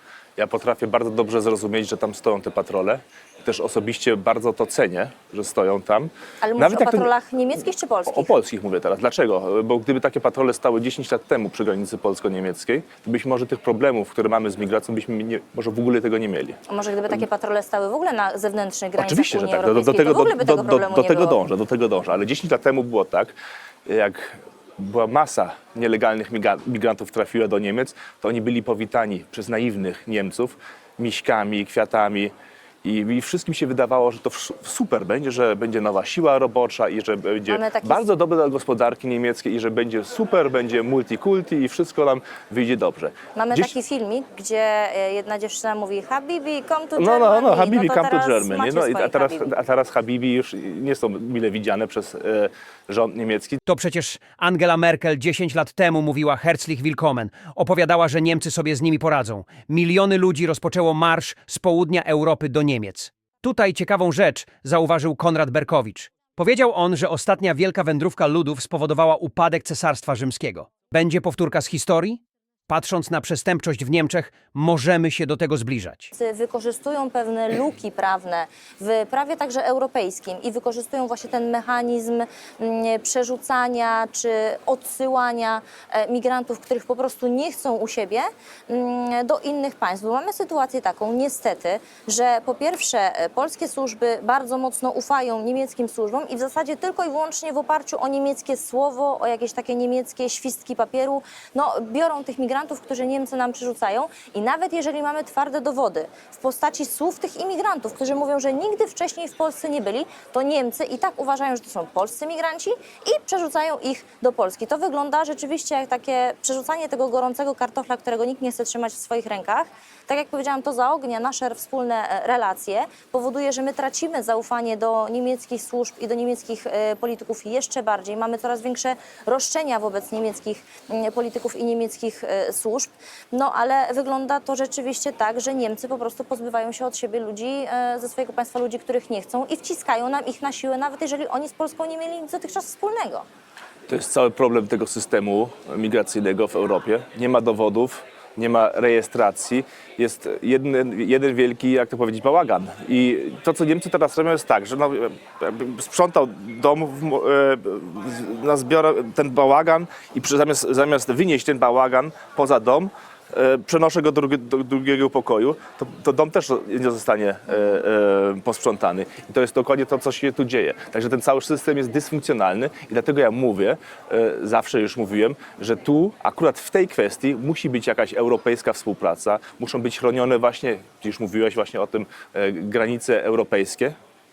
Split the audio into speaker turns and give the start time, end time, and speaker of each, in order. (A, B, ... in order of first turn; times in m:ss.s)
0:00.4-0:07.1 A
0:06.4-0:08.3 B
0:08.1-0:16.6 A
0:16.7-0:21.4 B
0:19.0-0:23.3 A
0:23.9-0:32.3 A
0:32.8-0:43.7 A
0:37.5-0:38.0 B
0:43.3-0:49.5 B
0:47.0-0:53.6 A
0:53.7-1:16.1 C
1:16.1-2:23.2 B
2:23.9-3:03.9 A